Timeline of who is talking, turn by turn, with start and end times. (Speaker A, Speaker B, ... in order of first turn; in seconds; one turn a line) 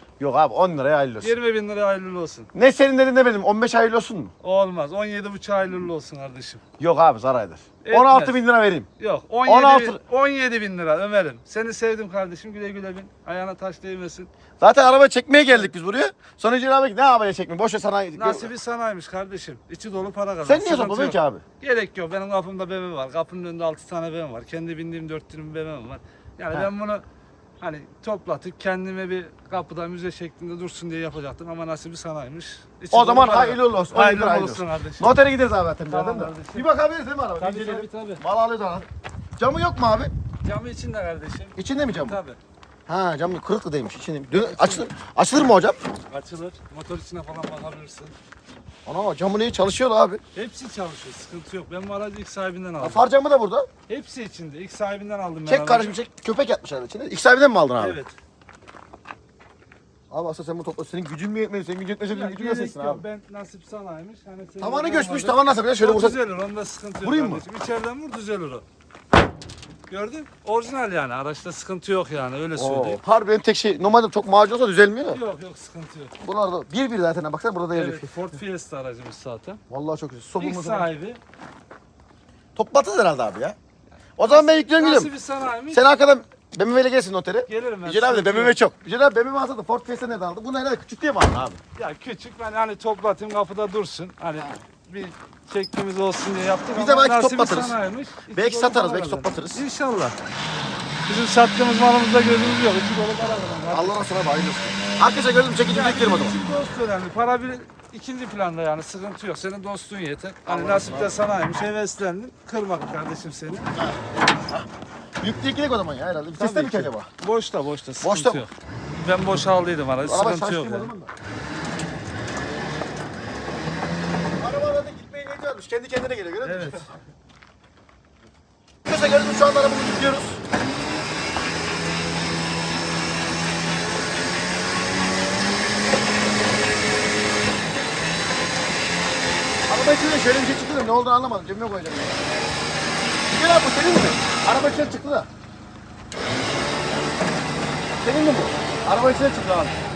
Speaker A: 0.2-1.3
Speaker B: 1.2-2.5
Speaker A: 2.5-4.3
Speaker B: 4.4-6.6
Speaker A: 6.8-8.9
Speaker B: 7.8-8.4
Speaker B: 9.0-14.3
Speaker A: 9.4-10.0
Speaker A: 14.6-18.5
Speaker B: 18.2-27.0
Speaker A: 20.4-21.4
Speaker B: 27.6-35.2
Speaker A: 32.9-38.9
Speaker B: 35.9-36.7
Speaker B: 37.4-38.2
Speaker A: 39.4-40.1
Speaker B: 40.4-42.4
Speaker A: 41.6-42.2
Speaker A: 42.9-45.8
Speaker B: 44.4-44.9
Speaker B: 46.1-48.1
Speaker A: 48.9-50.2
Speaker B: 50.3-53.0
Speaker A: 52.8-53.7
Speaker B: 53.9-56.0
Speaker A: 55.5-58.0
Speaker B: 57.8-58.1
Speaker A: 60.1-63.0
Speaker B: 62.1-68.6
Speaker A: 64.6-66.2
Speaker A: 67.0-67.4
Speaker B: 69.9-73.0
Speaker A: 72.6-75.2
Speaker B: 75.1-76.1
Speaker A: 76.2-78.3
Speaker B: 77.7-79.6
Speaker A: 79.7-80.9
Speaker B: 80.4-81.2
Speaker A: 82.5-83.6
Speaker A: 84.2-85.1
Speaker B: 84.2-85.8
Speaker A: 85.7-91.6
Speaker B: 87.5-88.6
Speaker B: 91.8-100.2
Speaker A: 96.7-97.8
Speaker A: 98.3-99.6
Speaker B: 101.1-104.1
Speaker A: 103.7-106.4
Speaker B: 105.7-113.7
Speaker A: 110.5-111.2
Speaker A: 113.8-114.7
Speaker A: 115.2-117.1
Speaker B: 116.3-120.9
Speaker A: 118.0-118.4
Speaker A: 120.0-121.1
Speaker A: 124.4-126.9
Speaker B: 126.4-126.9
Speaker A: 128.9-130.4
Speaker A: 139.7-142.3
Speaker A: 143.3-145.3
Speaker A: 148.0-149.8